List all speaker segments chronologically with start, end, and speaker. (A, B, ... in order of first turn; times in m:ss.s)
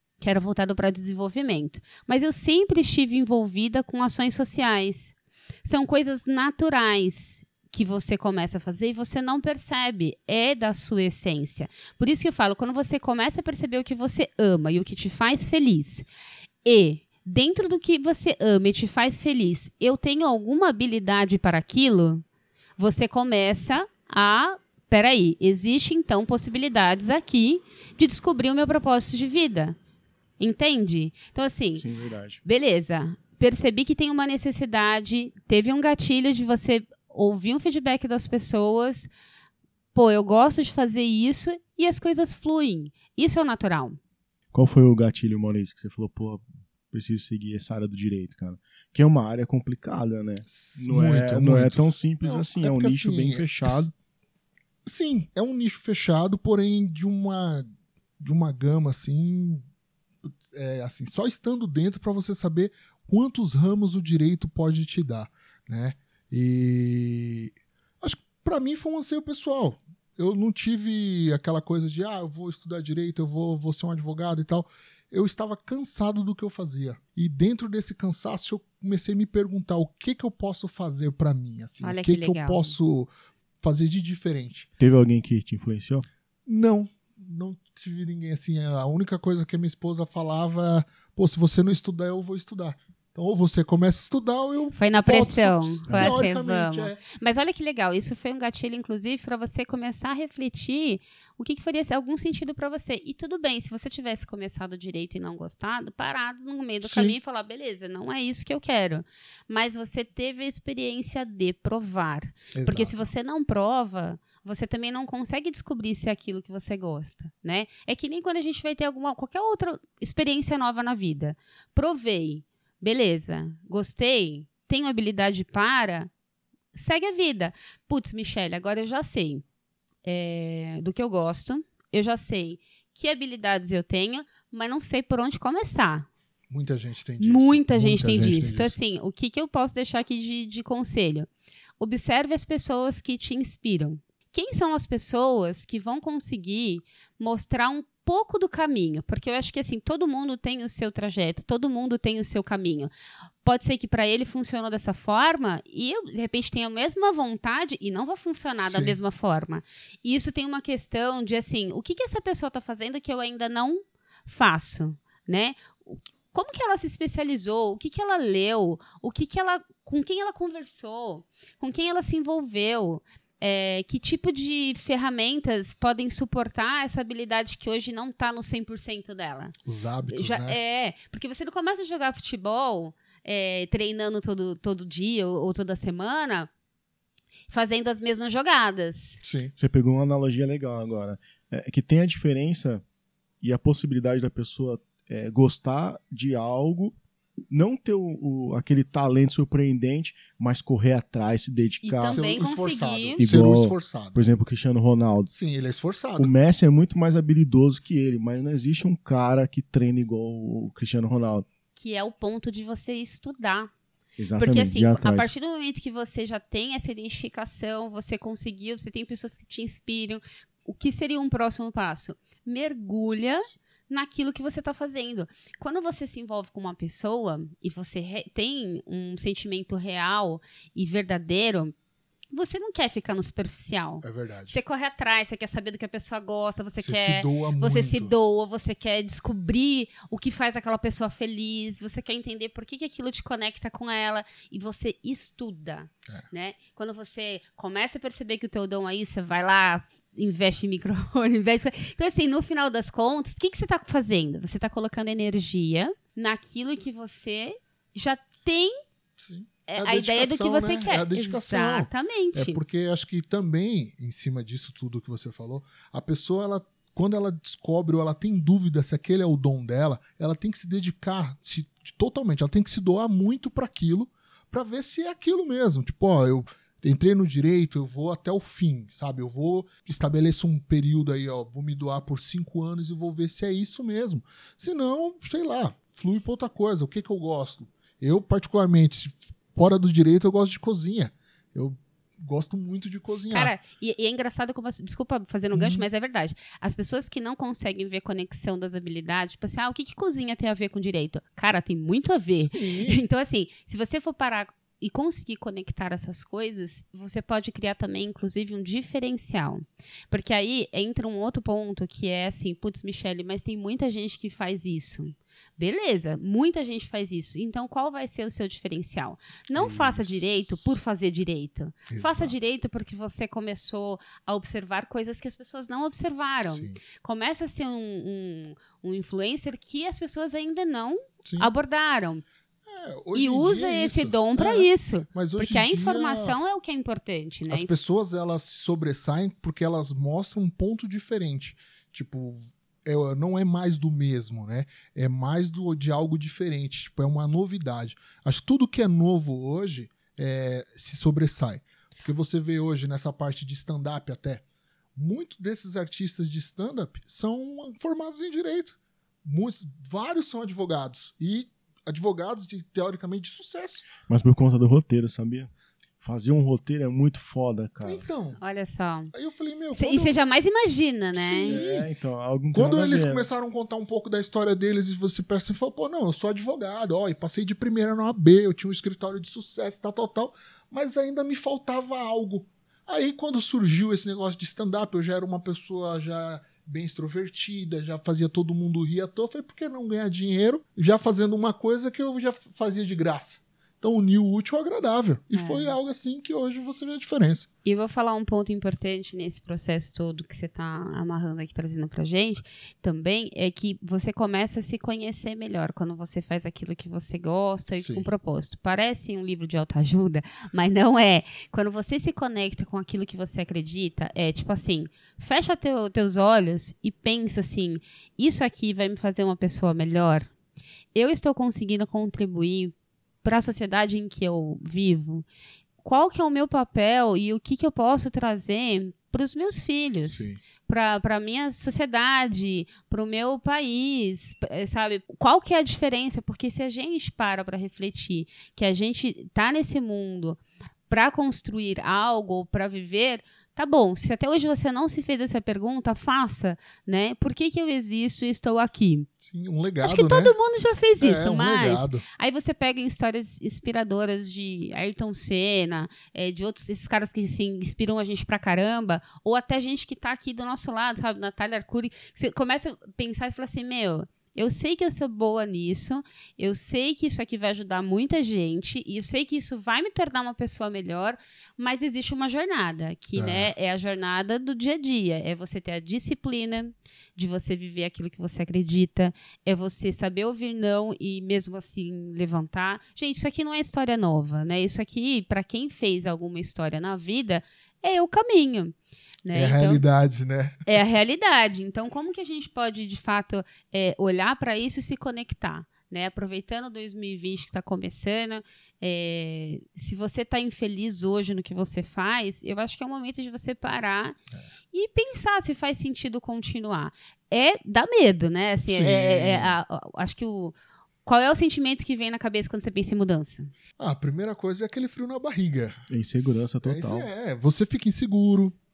0:00.2-0:16.1 A
0:16.6-0:22.2 A
0:22.8-0:29.8 A
0:30.4-0:31.8 A
0:31.8-0:32.4 B
0:32.4-0:39.1 A
0:39.9-0:44.0 A
0:44.5-0:53.9 B
0:50.5-0:53.9 C
0:54.8-0:57.7 C
0:58.2-0:59.6 C
1:00.4-1:23.1 C
1:21.8-1:22.8 A
1:23.6-1:24.7 C
1:24.8-1:26.1 B
1:26.5-1:37.0 C
1:34.8-2:06.1 A
1:35.9-1:36.2 B
1:46.8-1:47.2 C
1:52.5-1:53.1 C
2:06.8-2:09.4 A
2:10.0-2:16.1 A
2:16.5-2:18.8 C
2:17.2-2:21.3 A
2:21.8-2:32.9 A
2:33.4-2:59.6 A
2:38.6-2:39.0 C
2:59.7-3:00.6 C
3:00.1-3:06.5 A
3:07.5-3:09.2 A
3:09.2-3:09.5 C
3:09.6-3:12.8 B
3:13.4-3:17.0 B
3:17.5-3:22.2 B
3:21.8-3:23.2 A
3:22.1-3:24.2 C
3:23.2-3:25.3 B
3:25.3-3:26.3 C
3:26.2-3:31.5 B
3:31.8-3:33.7 A
3:34.2-3:35.3 B
3:34.4-3:51.7 A
3:52.3-4:18.7 A
3:54.0-3:54.6 C
3:56.8-3:58.1 C
4:19.2-4:53.5 C
4:19.7-4:22.6 A
4:53.3-5:32.2 A
4:55.5-4:55.9 C
5:02.4-5:03.0 C
5:19.5-5:20.8 C
5:21.9-5:22.4 C
5:26.5-5:26.8 C
5:31.2-5:31.5 C
5:32.7-5:36.4 C
5:33.1-5:37.7 A
5:37.5-5:54.4 C
5:55.0-6:03.9 C
6:04.0-6:08.0 B
6:07.8-6:08.4 C
6:08.4-6:09.1 A
6:09.1-6:10.1 C
6:09.7-6:11.6 A
6:11.1-6:11.9 C
6:11.5-6:13.3 B
6:12.5-6:37.5 C
6:35.3-6:35.8 A
6:37.6-7:00.3 A
6:47.7-6:48.1 C
7:01.0-7:05.3 A
7:05.8-7:29.1 A
7:10.0-7:10.4 C
7:29.2-7:30.4 C
7:29.8-8:09.8 A
7:31.0-7:32.0 C
7:53.2-7:53.5 C
8:09.3-8:10.6 C
8:10.7-8:24.2 A
8:24.7-8:33.5 A
8:28.7-8:29.6 C
8:33.8-8:38.6 C
8:35.9-8:37.1 B